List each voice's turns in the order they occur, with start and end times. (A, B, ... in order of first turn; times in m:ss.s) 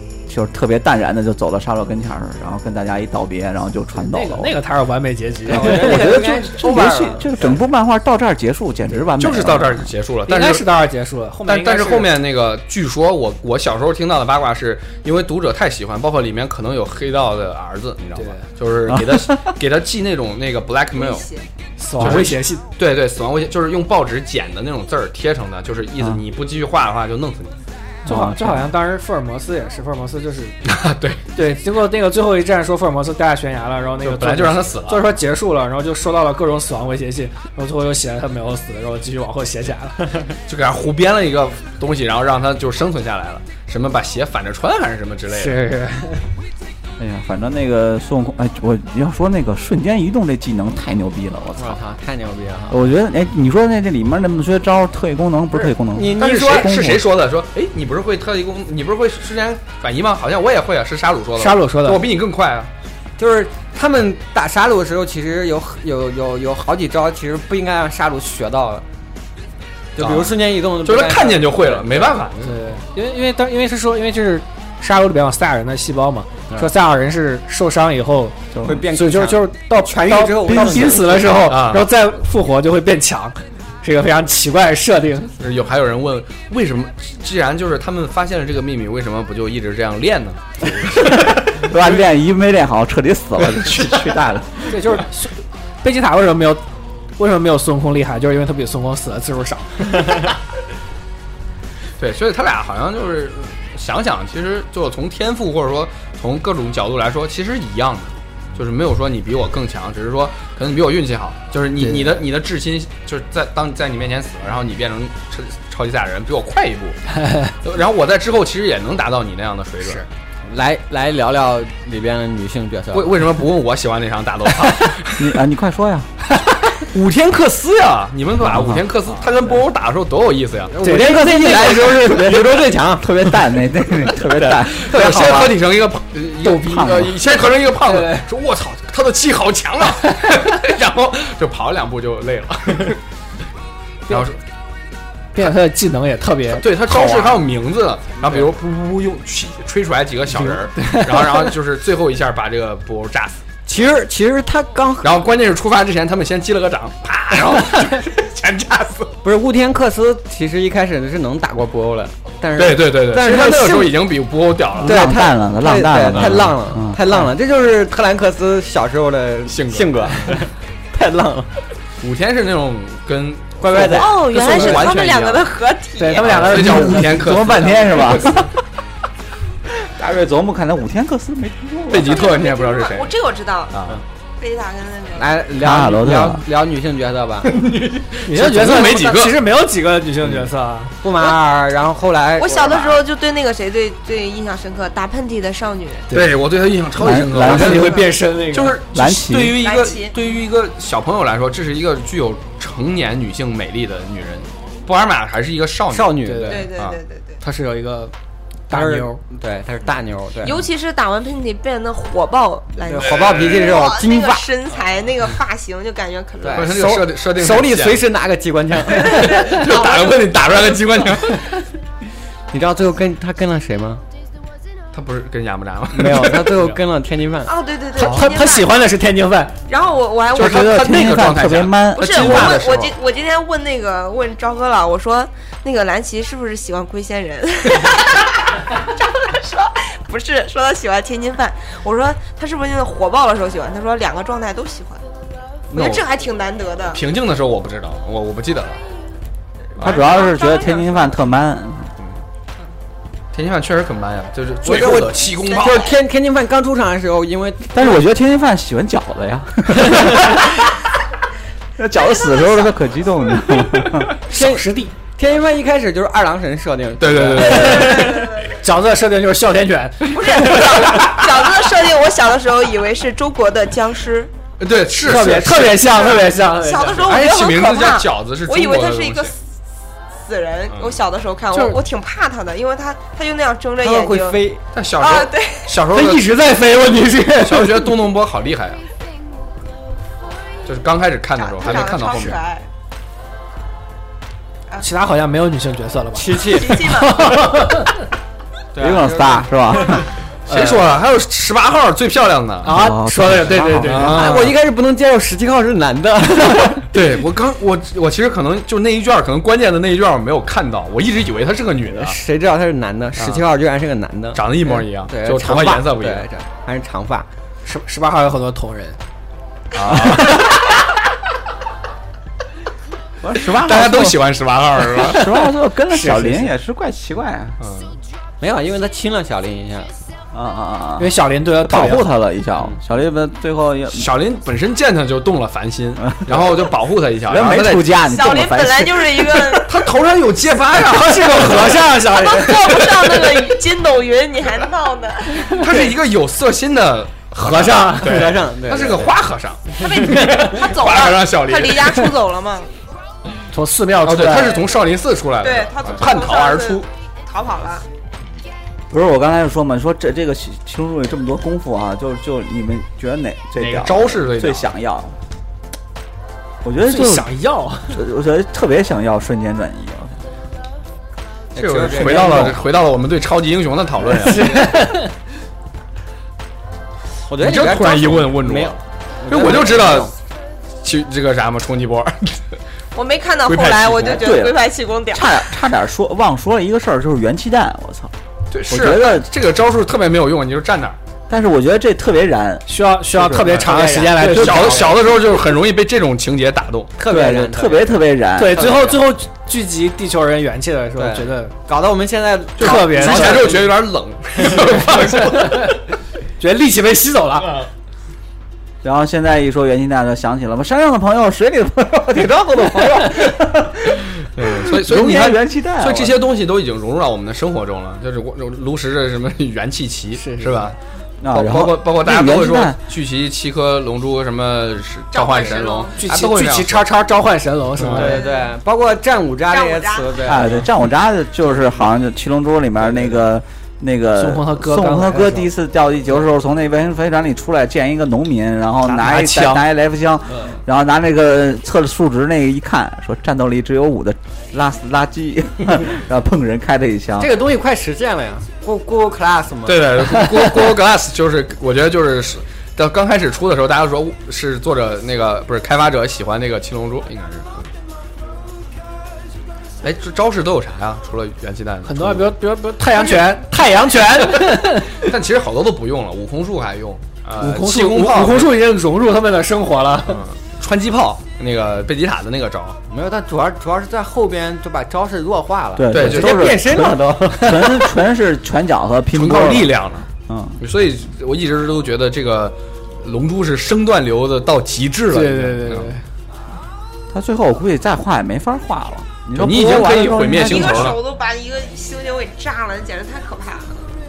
0:00.3-0:04.6 A
0:04.0-0:06.3 B
0:05.5-0:09.9 A
0:05.5-0:07.6 C
0:09.2-0:10.7 D
0:10.3-0:12.2 B
0:11.5-0:21.3 D
0:18.2-0:18.5 B
0:18.9-0:19.3 A
0:21.0-0:21.5 E
0:21.8-0:22.6 B
0:22.0-0:27.6 D
0:28.0-0:30.6 B
0:28.1-0:28.7 A
0:30.7-0:31.3 D
0:31.4-0:40.4 B
0:34.0-0:35.1 D
0:40.5-0:45.6 D
0:45.3-0:46.3 B
0:47.0-0:51.8 A
0:51.6-0:52.8 C
0:52.7-0:57.1 A
0:55.8-0:56.7 C
0:56.2-1:02.7 D
1:01.4-1:02.1 B
1:03.2-1:08.8 C
1:10.0-1:12.2 C
1:10.0-1:12.6 D
1:12.4-1:25.4 B
1:18.5-1:18.8 A
1:18.6-1:21.3 C
1:21.4-1:21.9 D
1:25.4-1:31.1 D
1:30.8-1:34.8 A
1:34.7-1:36.6 B
1:37.2-1:40.3 B
1:42.0-2:00.1 D
1:57.2-1:57.5 B
2:00.4-2:03.2 C
2:02.9-2:05.4 D
2:05.2-2:06.1 A
2:06.7-2:10.7 D
2:08.4-2:08.8 A
2:10.7-2:13.4 C
2:10.8-2:12.2 B
2:12.2-2:15.5 A
2:14.6-2:23.0 D
2:14.8-2:15.5 C
2:16.6-2:17.1 A
2:17.8-2:18.3 B
2:24.1-2:24.4 D
2:25.3-2:27.4 B
2:26.5-2:33.4 D
2:30.8-2:31.4 B
2:33.7-2:35.2 C
2:35.0-2:39.1 D
2:39.2-2:43.9 C
2:42.6-2:45.0 D
2:44.8-2:47.2 A
2:44.8-2:51.5 C
2:46.1-2:46.5 D
2:49.5-2:50.4 D
2:52.0-2:55.5 D
2:53.6-2:54.6 C
2:53.7-2:56.4 E
2:54.4-2:54.8 B
2:56.0-2:57.2 B
2:56.1-2:58.5 D
2:56.5-2:58.5 A
2:59.8-3:02.2 A
3:01.9-3:03.1 D
3:02.0-3:03.7 E
3:03.7-3:04.0 D
3:04.4-3:05.4 E
3:05.1-3:07.5 C
3:05.6-3:06.4 A
3:07.5-3:09.4 D
3:08.3-3:11.0 B
3:11.0-3:13.0 C
3:12.4-3:16.1 E
3:16.1-3:26.2 D
3:17.0-3:18.1 A
3:17.3-3:18.8 B
3:18.9-3:19.6 A
3:19.6-3:20.1 E
3:25.9-3:26.7 C
3:26.2-3:26.7 B
3:26.5-3:27.4 E
3:26.7-3:27.0 D
3:27.4-3:28.1 B
3:28.7-3:29.2 B
3:28.7-3:30.6 C
3:30.4-3:36.9 E
3:32.8-3:34.5 C
3:33.0-3:33.6 D
3:36.4-3:39.4 C
3:36.5-3:38.0 D
3:38.9-3:40.4 E
3:39.0-3:41.6 D
3:42.5-3:44.0 C
3:44.9-3:46.8 D
3:45.9-3:47.5 C
3:47.4-3:48.8 E
3:48.0-3:49.6 B
3:48.0-3:48.3 D
3:49.7-3:51.1 E
3:50.3-3:53.0 D
3:50.4-3:52.6 A
3:51.9-4:05.0 E
4:05.7-4:06.0 D
4:05.7-4:07.0 E
4:06.9-4:08.8 D
4:09.8-4:10.0 D
4:09.8-4:11.2 E
4:09.8-4:11.9 A
4:13.3-4:15.9 D
4:14.6-4:18.0 C
4:15.4-4:15.9 E
4:17.7-4:20.7 A
4:21.8-4:24.1 A
4:24.3-4:25.0 B
4:24.3-4:28.0 C
4:27.0-4:28.2 D
4:27.4-4:31.1 B
4:27.6-4:28.6 E
4:30.1-4:34.3 E
4:34.6-4:36.0 D
4:35.0-4:37.2 B
4:35.9-4:39.4 E
4:37.0-4:39.3 D
4:40.2-4:44.4 E
4:40.7-4:41.0 D
4:41.5-4:41.8 B
4:43.8-4:44.6 C
4:44.7-4:46.3 D
4:45.0-4:45.7 E
4:45.9-4:48.0 B
4:47.4-4:48.8 D
4:50.6-4:52.4 D
4:51.4-4:52.7 E
4:54.8-4:58.0 B
4:56.1-4:56.9 C
4:56.5-4:57.3 E
4:58.7-4:59.6 C
4:58.8-5:00.0 A
5:00.5-5:02.7 D
5:00.5-5:00.9 B
5:02.6-5:04.5 B
5:02.6-5:04.2 A
5:03.8-5:04.5 D
5:04.0-5:06.9 C
5:06.9-5:12.2 D
5:11.9-5:17.3 C
5:13.2-5:13.4 D
5:14.3-5:16.3 D
5:17.6-5:19.0 B
5:19.7-5:20.6 D
5:20.1-5:20.5 B
5:23.2-5:24.2 A
5:23.4-5:25.3 D
5:25.0-5:27.6 A
5:25.9-5:26.5 B
5:27.6-5:28.0 D
5:28.4-5:29.9 C
5:30.3-5:34.1 A
5:31.0-5:32.1 B
5:33.9-5:37.9 D
5:36.1-5:36.4 A
5:37.3-5:39.6 A
5:38.0-5:39.7 E
5:39.6-5:41.9 D
5:40.7-5:43.4 B
5:42.1-5:45.7 E
5:45.5-5:52.1 D
5:47.4-5:48.4 B
5:48.0-5:49.2 C
5:49.8-5:52.7 E
5:53.5-5:54.6 B
5:54.0-5:56.9 D
5:54.2-5:54.5 A
5:55.4-5:57.9 E
5:58.9-6:05.2 A
6:03.6-6:04.7 D
6:06.6-6:07.3 A
6:06.8-6:08.0 B
6:07.9-6:10.2 A
6:11.5-6:12.6 C
6:11.6-6:14.7 D
6:12.0-6:12.6 A
6:14.2-6:15.1 B
6:17.3-6:20.1 C
6:17.4-6:20.1 D
6:20.8-6:22.4 D
6:23.0-6:25.5 E
6:23.4-6:24.2 D
6:23.9-6:28.1 A
6:28.5-6:31.0 D
6:28.7-6:29.3 A
6:31.3-6:33.5 A
6:32.7-6:34.9 B
6:33.5-6:35.0 C
6:34.2-6:36.9 D
6:37.0-6:39.0 C
6:37.1-6:38.7 A
6:38.4-6:41.6 B
6:41.0-6:43.6 C
6:42.6-6:43.5 B
6:42.6-6:45.8 D
6:45.0-6:45.7 B
6:46.4-6:47.6 B
6:48.8-6:56.2 A
6:54.2-7:00.8 D
7:00.2-7:00.7 B
7:01.2-7:02.8 A
7:01.3-7:06.9 D
7:05.1-7:06.0 E
7:06.0-7:08.2 B
7:07.8-7:08.2 D
7:07.9-7:10.7 C
7:08.0-7:08.4 E
7:09.5-7:10.4 E
7:10.2-7:27.3 A
7:12.9-7:13.2 C
7:14.2-7:15.5 B
7:18.8-7:19.7 B
7:27.2-7:29.9 C
7:29.7-7:37.7 D
7:39.8-7:42.4 D
7:41.8-7:45.1 B
7:44.2-7:48.5 D
7:47.4-7:50.2 B
7:50.0-7:52.8 D
7:52.9-7:57.8 C
7:55.8-7:59.7 A
7:55.9-7:56.6 D
7:59.1-8:00.1 D
8:00.3-8:00.6 A
8:00.6-8:05.9 D
8:05.1-8:06.0 B
8:07.1-8:11.0 A
8:09.3-8:11.0 D
8:10.3-8:13.9 E